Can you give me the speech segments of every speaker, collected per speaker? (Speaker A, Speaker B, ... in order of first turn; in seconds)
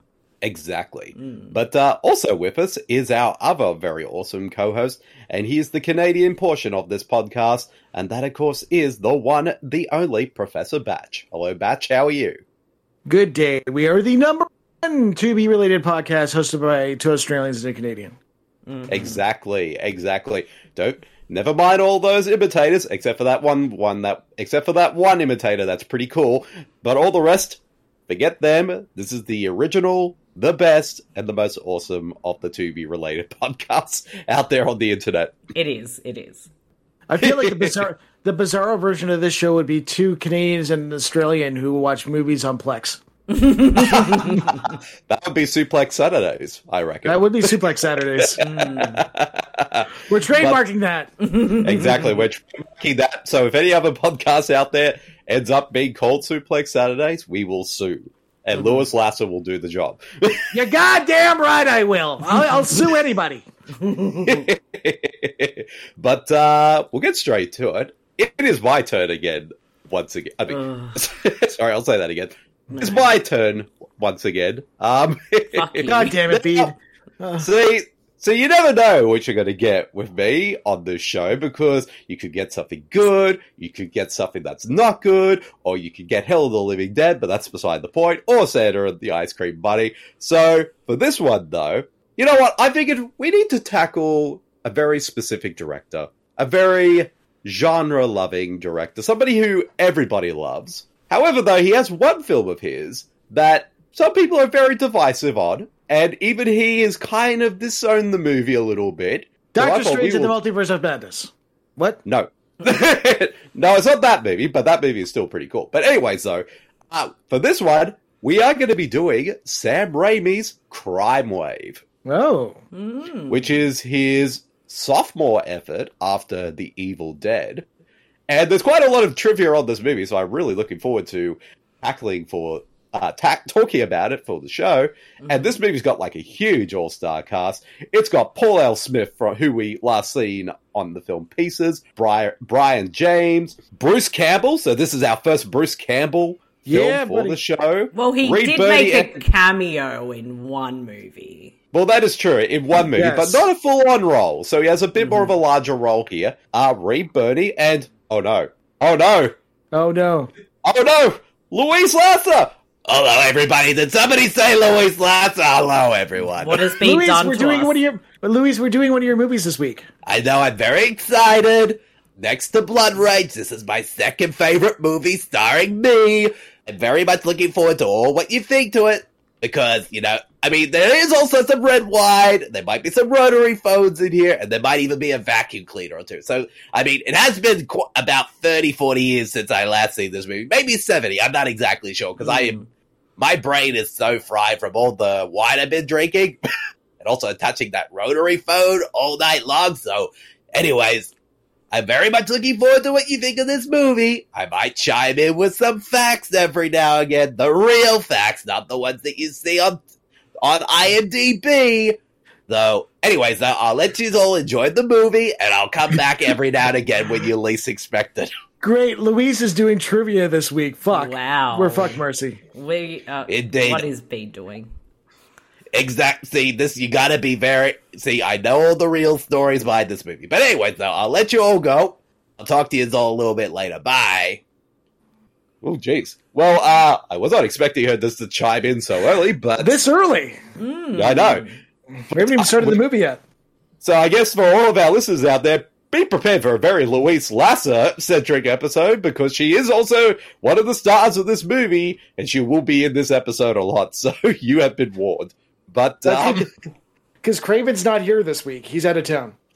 Speaker A: 0.4-12.4, 18.9-35.3, 37.2-37.9, 43.8-47.6, 48.2-50.6, 51.6-60.5, 64.2-76.7, 77.4-110.4, 112.0-121.8, 123.3-127.7, 128.3-149.2, 151.7-159.3, 160.6-166.7, 170.1-192.6, 193.2-196.4, 197.0-201.1, 201.7-209.8, 210.4-218.3, 223.3-223.9, 225.7-234.4, 235.6-239.8, 241.0-241.5, 242.1-242.8, 243.8-256.5
Speaker B: 1.2-1.6, 18.7-19.2, 35.5-36.5, 43.3-44.7, 48.4-49.1, 51.2-52.3, 58.6-58.9, 70.5-71.0, 72.8-73.1, 75.5-76.2, 122.7-123.6, 135.2-135.5, 147.9-151.6, 155.0-155.4, 166.3-167.8, 192.2-192.7, 220.9-222.0, 222.5-224.7, 240.6-241.6
Speaker C: 13.1-18.2, 37.1-43.0, 47.0-48.5, 50.1-51.1, 60.5-63.5, 75.8-77.5, 109.5-112.0, 122.0-122.6, 146.7-147.4, 152.8-153.4, 159.7-160.3, 166.8-169.9, 218.6-222.4, 239.6-240.4, 242.1-243.2, 256.1-256.5, 257.2-259.4